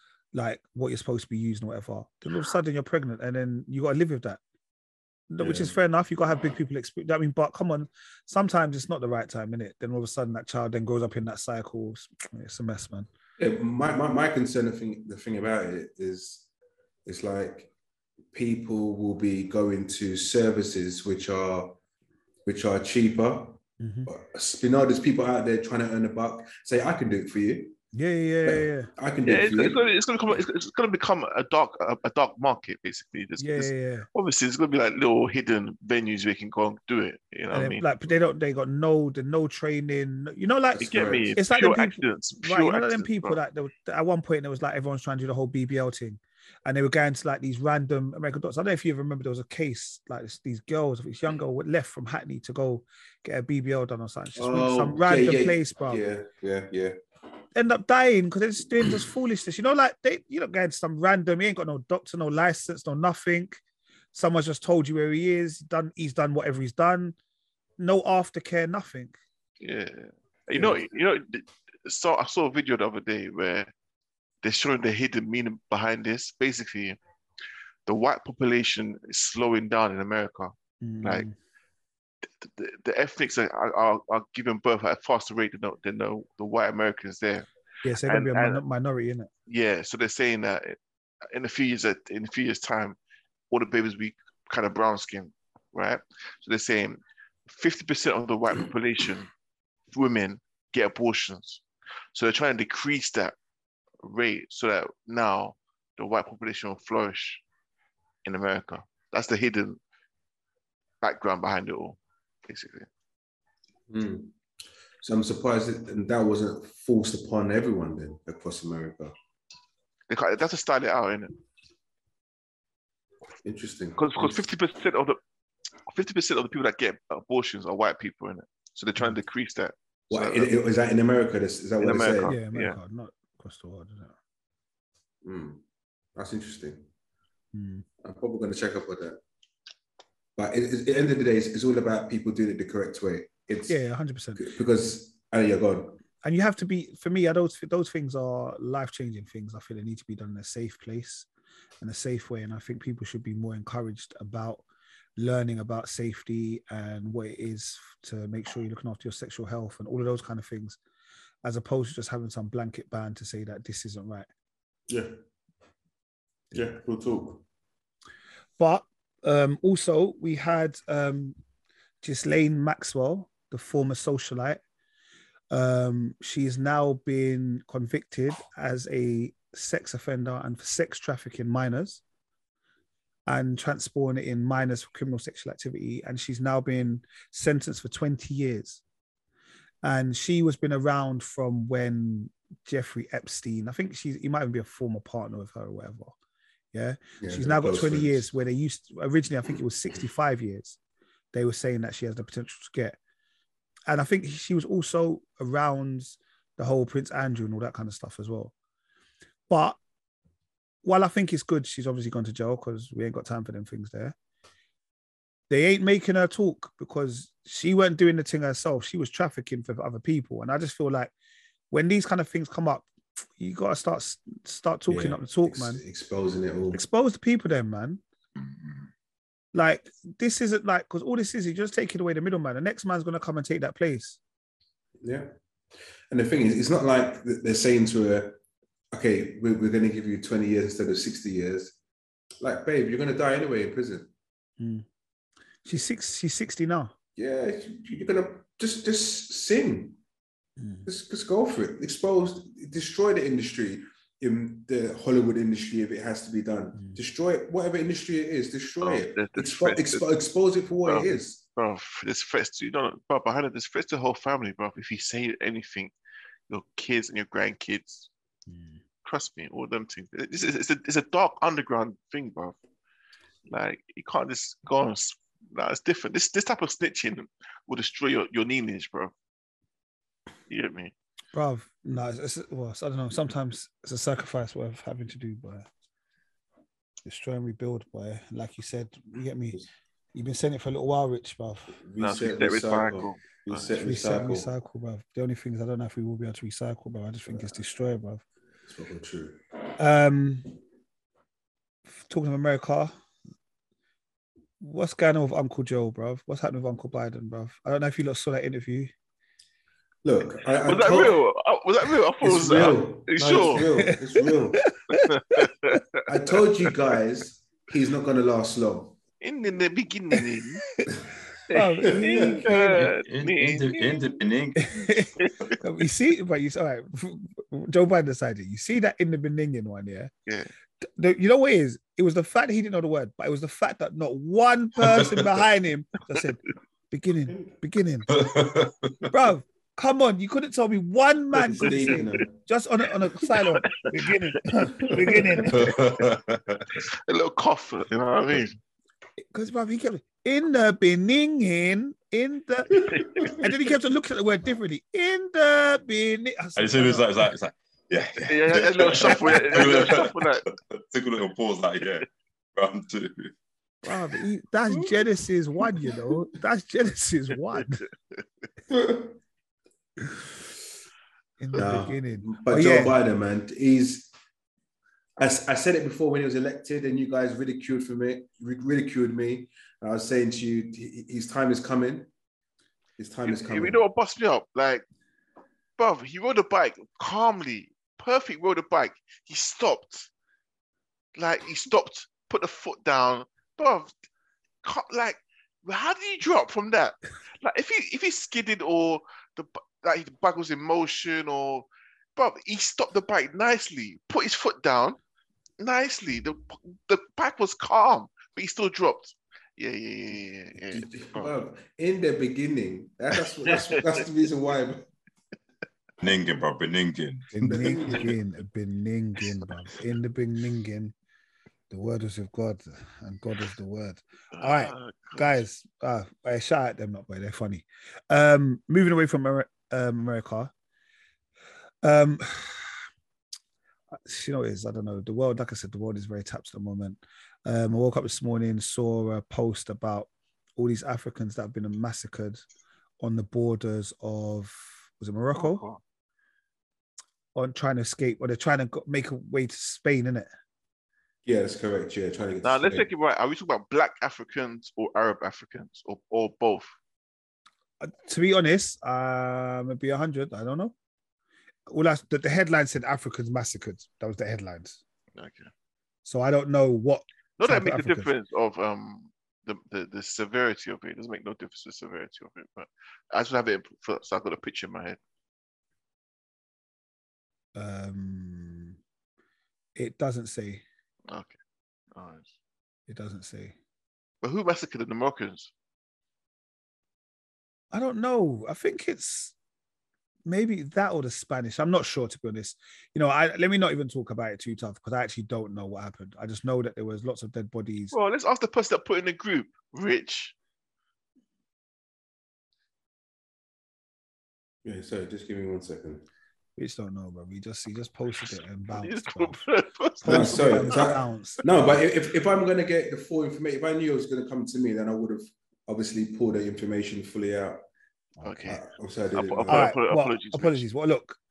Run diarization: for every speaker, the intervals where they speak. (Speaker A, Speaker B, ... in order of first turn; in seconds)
Speaker A: 0.3-4.4, 5.3-13.1, 23.8-24.1, 27.9-28.9, 33.4-34.1, 37.5-56.0, 57.5-63.6, 64.1-67.2, 67.8-69.2, 80.8-81.3, 87.8-89.3, 132.2-134.2, 137.5-137.8, 143.7-144.5, 146.2-151.3, 151.8-154.6, 155.2-160.8, 161.4-164.3, 168.6-171.3, 172.0-174.6, 175.5-182.0, 183.3-188.8, 189.8-196.1, 196.7-200.8, 201.3-203.0, 203.9-208.5, 209.5-209.8, 210.8-214.1, 215.5-221.1, 221.7-225.8, 226.7-228.0, 229.5-234.2, 244.6-244.8, 245.6-246.9, 250.6-250.9, 281.3-285.7, 287.0-289.6, 290.1-291.8, 293.8-298.2, 299.8-300.5, 302.1-302.9, 304.6-308.9, 313.6-315.5, 321.5-322.9, 324.6-330.1, 330.8-338.1, 339.1-345.7, 349.2-357.2, 363.8-367.8, 371.4-372.9, 417.3-420.9, 421.7-430.5, 431.8-432.7, 434.1-442.4, 443.0-445.6, 447.3-450.3, 457.8-460.7, 461.7-464.8, 466.0-468.1, 477.5-478.8, 479.8-480.6, 482.9-483.5, 487.7-489.3, 490.2-497.9, 506.6-509.4, 510.0-511.8, 519.5-521.2
Speaker B: 5.4-5.7, 13.4-16.4, 17.1-17.7, 18.3-21.8, 22.4-27.8, 28.4-29.8, 40.7-41.4, 54.4-57.0, 113.9-114.3, 115.0-119.1, 123.4-124.4, 130.1-132.3, 135.2-135.6, 136.2-136.8, 138.0-139.2, 140.3-143.8, 144.4-146.0, 166.5-167.4, 197.2-198.2, 224.9-226.8, 235.0-235.3, 236.1-238.4, 238.9-241.7, 242.4-244.1, 247.2-250.0, 250.8-261.4, 291.7-294.5, 298.6-299.4, 310.0-311.2, 312.2-314.7, 316.1-319.0, 321.8-322.4, 341.4-342.3, 344.8-345.5, 353.0-353.3, 368.7-369.2, 371.5-374.1, 375.2-382.1, 383.0-383.8, 410.7-414.8, 417.4-418.1, 451.2-452.9, 504.6-506.0, 510.0-517.6, 518.5-519.7
Speaker C: 29.2-37.8, 40.8-43.4, 69.6-73.7, 74.4-77.0, 77.8-81.2, 82.2-87.5, 88.0-88.6, 89.5-90.8, 91.3-93.0, 93.5-99.3, 99.9-101.6, 102.1-103.3, 104.0-107.4, 108.2-109.8, 111.0-112.9, 120.1-121.3, 124.0-125.2, 125.9-130.5, 131.8-132.8, 258.8-260.1, 260.8-265.9, 266.5-268.1, 269.0-272.6, 273.5-279.1, 280.5-280.9, 292.0-293.7, 310.6-313.7, 314.9-316.0, 319.2-320.6, 321.5-324.1, 343.5-343.9, 344.9-345.5, 346.8-348.6, 352.9-353.4, 358.2-360.4, 383.2-384.8, 385.8-390.1, 391.1-393.9, 394.6-405.0, 405.6-411.3, 413.4-413.8, 424.3-425.4, 445.3-445.8, 452.4-456.7, 465.1-465.5, 467.4-475.0, 481.1-481.4, 481.9-482.3, 484.2-485.5, 497.9-500.3, 508.7-510.9, 518.2-518.6, 519.1-520.6
Speaker D: 322.4-325.0, 338.1-339.1, 345.5-346.7, 356.6-360.1, 360.7-363.3, 416.0-417.7